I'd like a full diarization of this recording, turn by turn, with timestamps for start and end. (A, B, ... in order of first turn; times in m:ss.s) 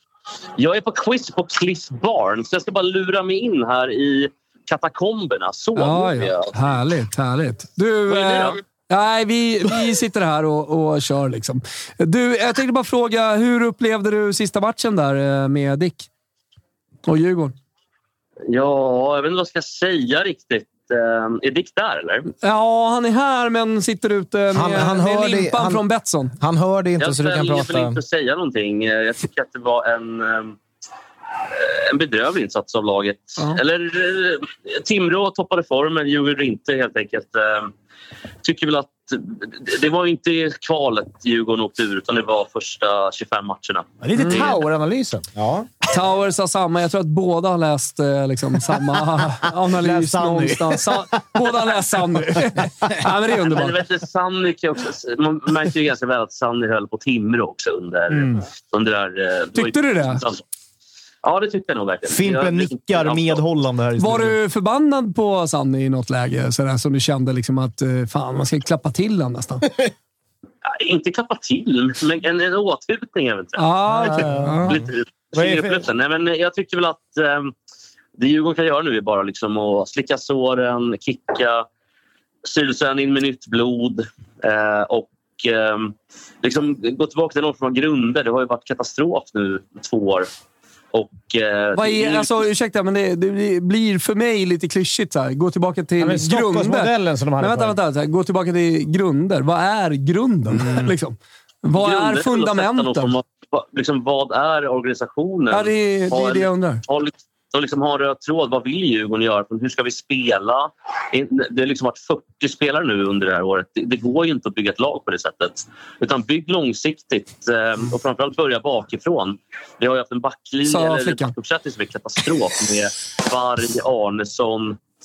0:00.6-0:06.5 A
0:05.8-0:16.1 B
0:08.1-0:08.6 A
0:17.0-0:17.5 B
0:18.5-0:22.3 A
0:22.4-0:26.4 B
0:24.5-0:25.8 C
0:26.4-0:28.0 C
0:27.0-0:30.6 A
0:31.5-0:37.7 A
0:38.4-0:44.6 A
0:44.0-0:45.2 D
0:44.2-0:44.5 B
0:45.3-0:45.7 C
0:45.9-0:53.8 B
0:50.0-0:50.4 E
0:53.4-1:00.4 A
0:58.1-0:58.4 D
0:59.5-1:00.2 B
1:01.2-1:03.4 A
1:02.1-1:04.4 E
1:04.0-1:09.7 B
1:10.6-1:13.7 A
1:13.6-1:14.8 B
1:13.9-1:14.6 D
1:14.6-1:17.5 A
1:15.3-1:15.9 D
1:18.2-1:21.6 A
1:22.4-1:30.3 A
1:30.9-1:32.4 A
1:31.7-1:43.2 B
1:36.0-1:37.8 D
1:41.7-2:04.8 A
1:45.5-1:46.8 B
2:00.6-2:01.3 B